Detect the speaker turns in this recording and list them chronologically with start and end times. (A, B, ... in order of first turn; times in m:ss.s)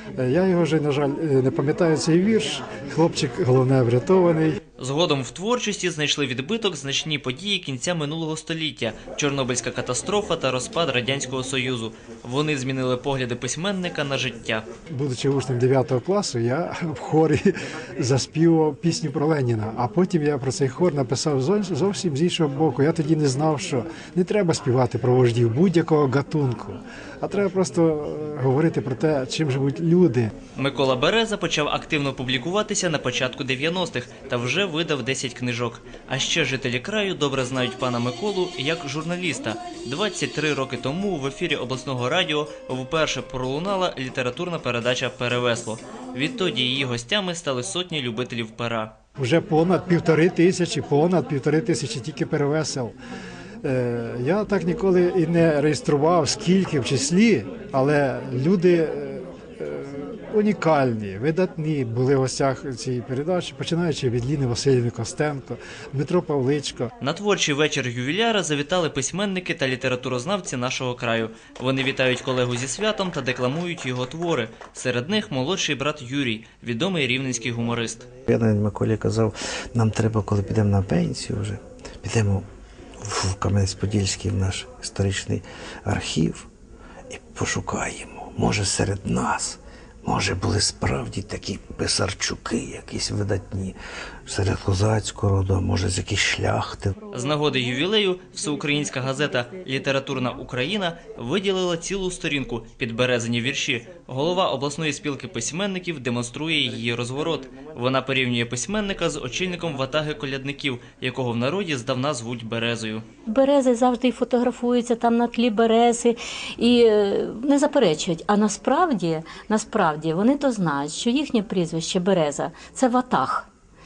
0:00.2-0:04.6 A
0:04.8-0:14.6 B
0:14.9-0:30.3 A
0:30.5-0:49.0 B
0:49.2-0:52.9 A
0:53.6-1:06.9 A
1:07.0-1:18.1 B
1:18.3-1:22.4 C
1:23.0-1:26.5 C
1:27.1-1:36.9 C
1:37.1-1:53.0 B
1:53.3-2:03.5 D